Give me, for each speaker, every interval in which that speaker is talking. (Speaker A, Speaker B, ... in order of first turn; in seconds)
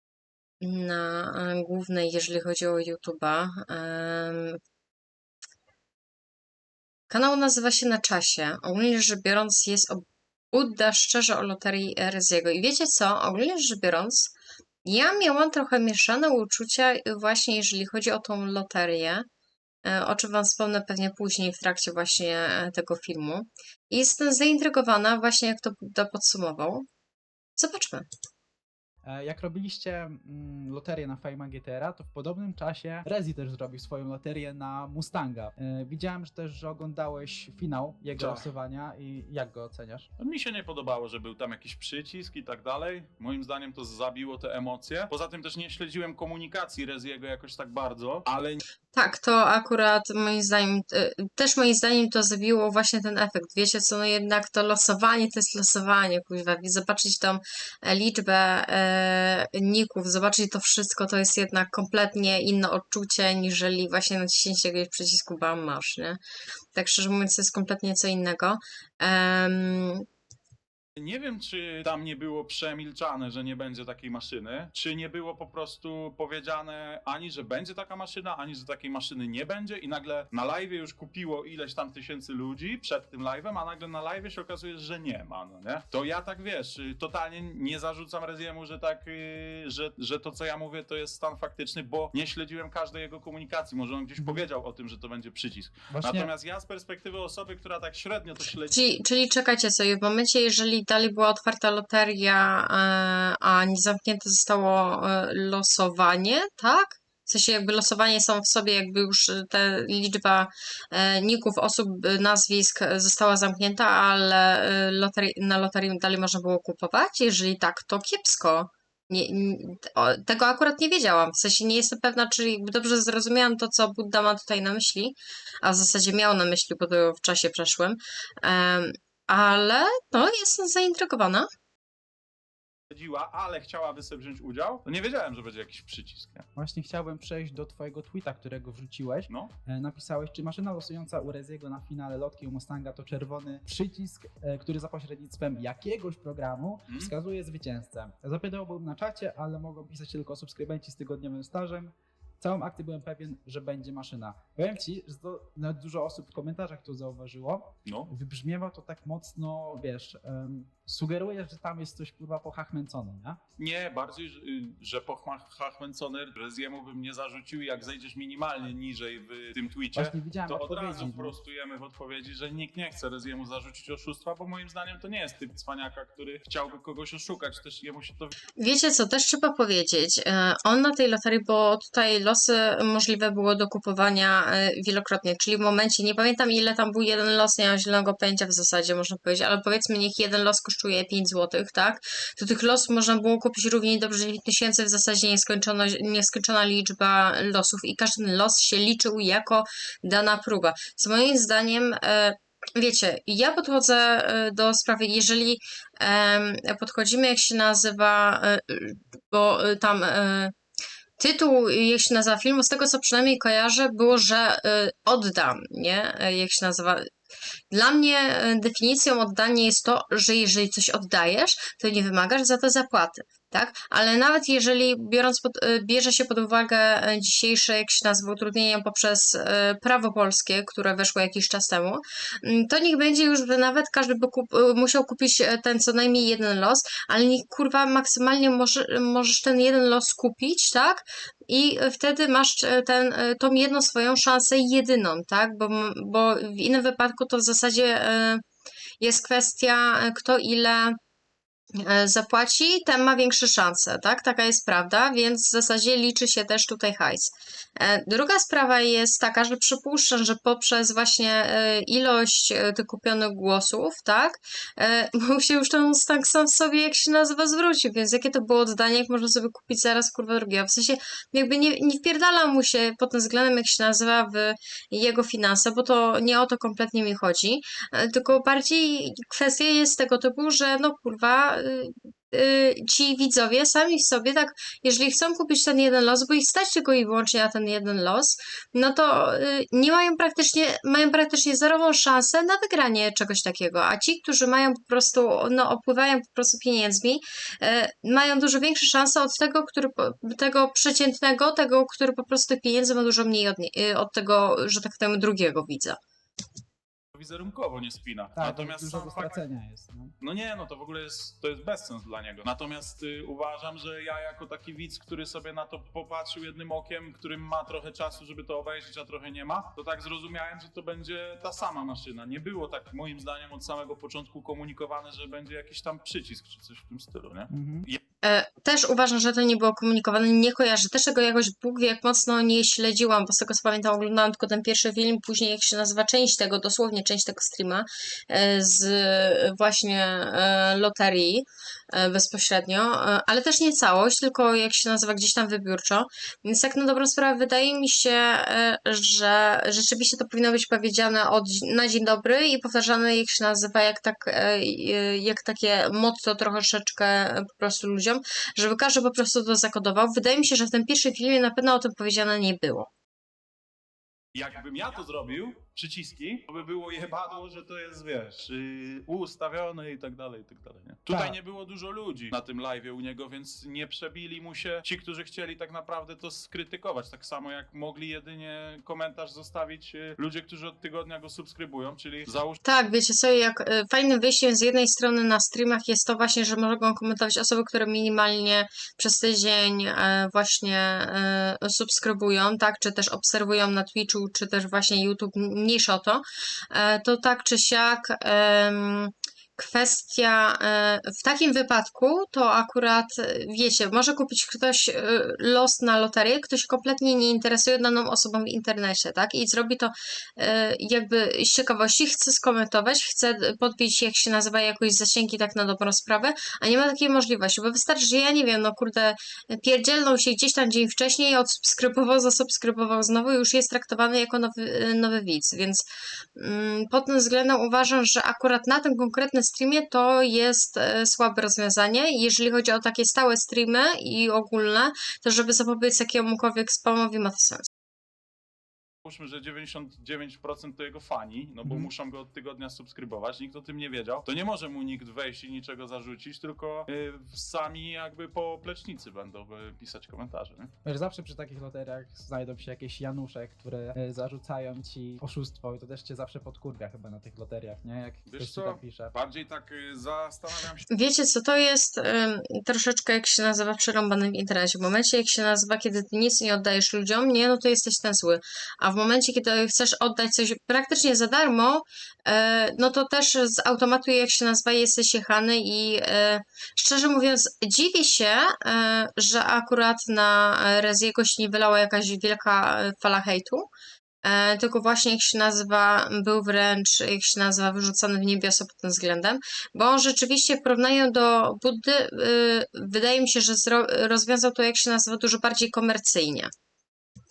Speaker A: 0.6-4.6, 7.1-14.3, 14.8-19.2, 19.9-26.8, 27.6-28.1, 48.9-66.2, 66.7-70.0, 98.7-131.5, 178.6-210.5, 211.2-217.1, 217.7-248.4, 249.0-250.9, 251.8-306.0, 328.2-362.9, 382.6-425.8, 426.4-437.6, 460.9-483.7, 484.2-496.5
Speaker B: 29.1-40.1, 95.9-96.3, 136.6-163.4, 169.9-171.4, 308.4-310.1, 327.5-327.9, 371.1-371.4, 441.6-441.9, 450.8-459.1
Speaker C: 38.1-38.5, 40.2-48.6, 71.0-98.8, 132.9-136.4, 146.9-147.1, 157.9-158.1, 163.6-178.3, 307.1-309.4, 310.2-328.0, 364.4-382.6, 439.1-450.7, 458.3-460.9